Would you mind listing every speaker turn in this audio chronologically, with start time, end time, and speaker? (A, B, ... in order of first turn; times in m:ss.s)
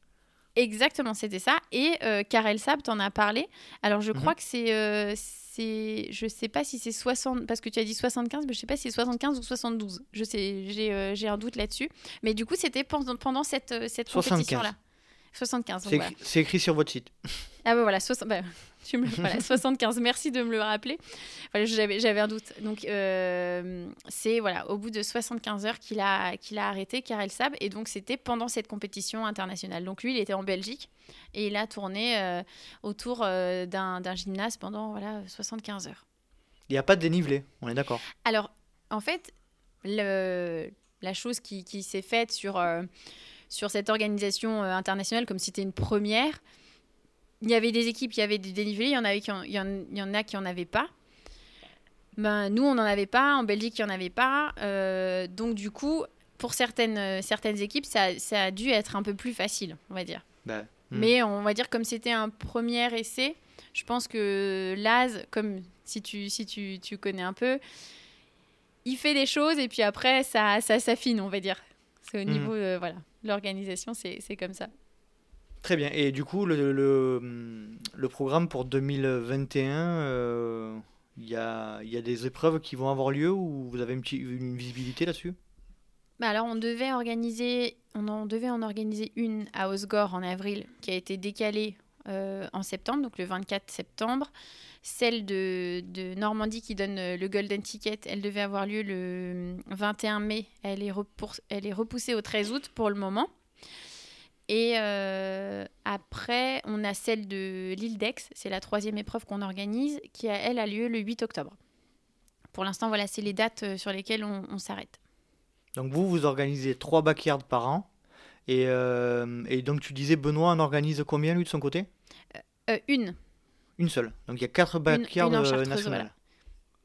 0:00.6-0:14.8 A
0:14.1-0:14.7 B
0:15.3-0:16.1 A
0:15.8-0:17.5 B
0:17.6-0:36.0 A
0:36.7-0:38.0 B
0:38.2-0:42.9 A
0:43.5-0:46.4 A
0:47.4-0:50.9 A
0:52.2-1:00.2 A
1:00.4-1:01.1 B
1:00.9-1:07.6 A
1:08.8-1:14.7 A
1:15.6-1:25.4 B
1:26.2-1:34.3 A
1:34.8-1:43.3 A
1:44.5-1:51.6 A
1:52.5-1:55.0 A
1:55.8-1:57.9 B
1:58.5-2:01.9 B
2:02.7-2:03.2 A
2:03.8-2:06.1 B
2:04.9-2:06.1 A